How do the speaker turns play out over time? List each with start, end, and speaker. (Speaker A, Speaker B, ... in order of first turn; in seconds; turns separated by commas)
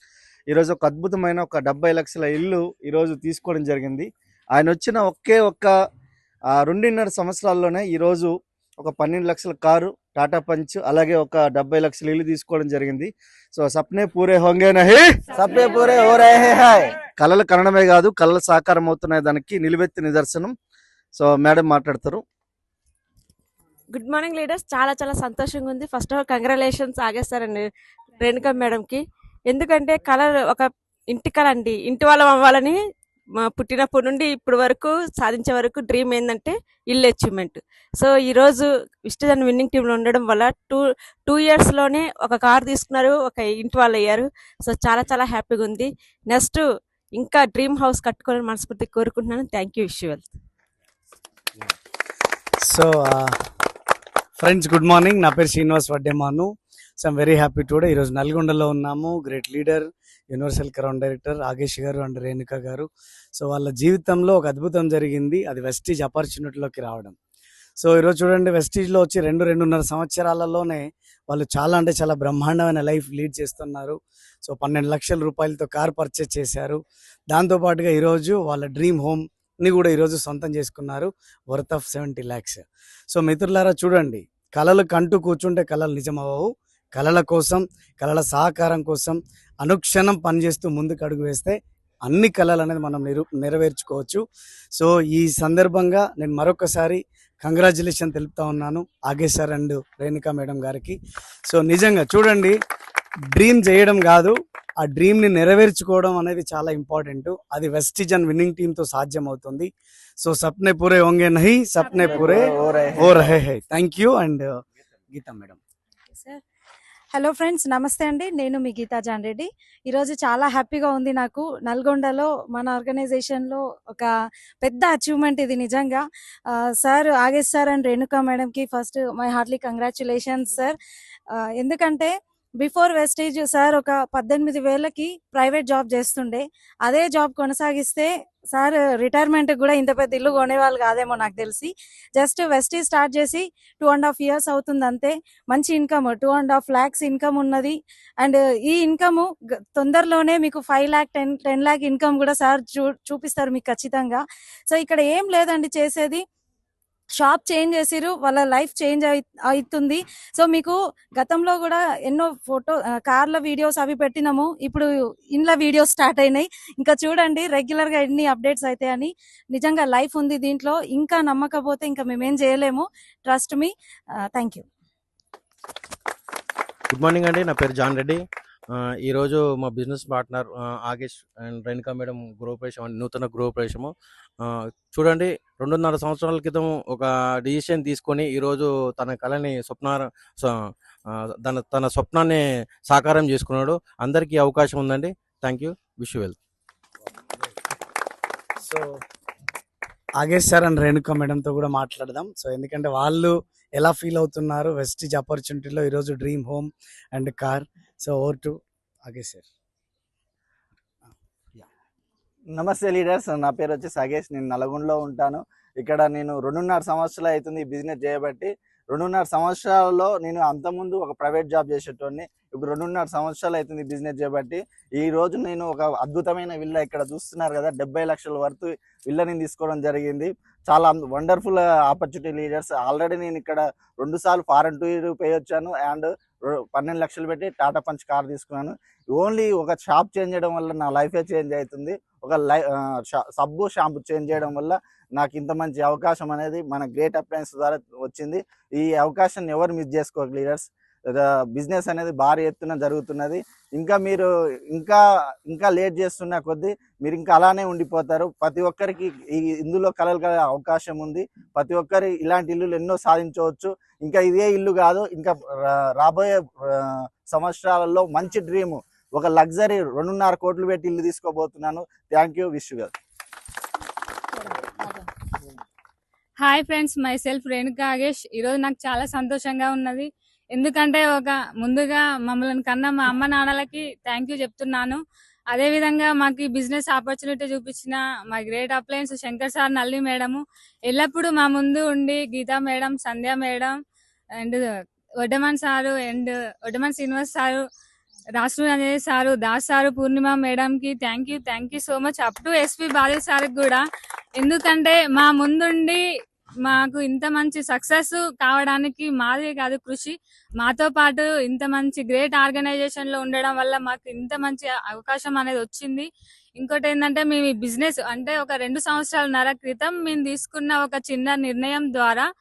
Speaker A: 0.5-5.7, Speaker A: 6.5-15.2, Speaker B: 15.3-16.4, Speaker C: 15.3-17.0, Speaker A: 17.1-20.5, Speaker A: 21.1-22.2, Speaker D: 23.9-27.6, Speaker D: 28.2-29.0, Speaker D: 29.5-32.7, Speaker D: 33.5-46.6, Speaker D: 47.2-50.2, Speaker E: 52.6-53.5, Speaker E: 54.4-67.2, Speaker E: 67.8-94.2, Speaker E: 94.8-102.6, Speaker E: 103.3-114.6, Speaker B: 111.8-112.5, Speaker C: 112.0-113.3, Speaker E: 115.1-115.6, Speaker F: 116.1-116.4, Speaker F: 117.1-124.1, Speaker F: 124.6-130.8, Speaker F: 131.3-156.2, Speaker F: 157.2-173.7, Speaker F: 174.2-174.6, Speaker G: 176.9-178.2, Speaker G: 178.8-190.5, Speaker G: 191.4-196.4, Speaker E: 198.6-199.0, Speaker E: 200.2-209.5, Speaker C: 212.5-272.9, Speaker B: 276.4-285.0, Speaker B: 285.5-293.8, Speaker B: 295.2-297.6, Speaker B: 298.4-303.8, Speaker B: 304.4-306.0, Speaker B: 306.6-322.3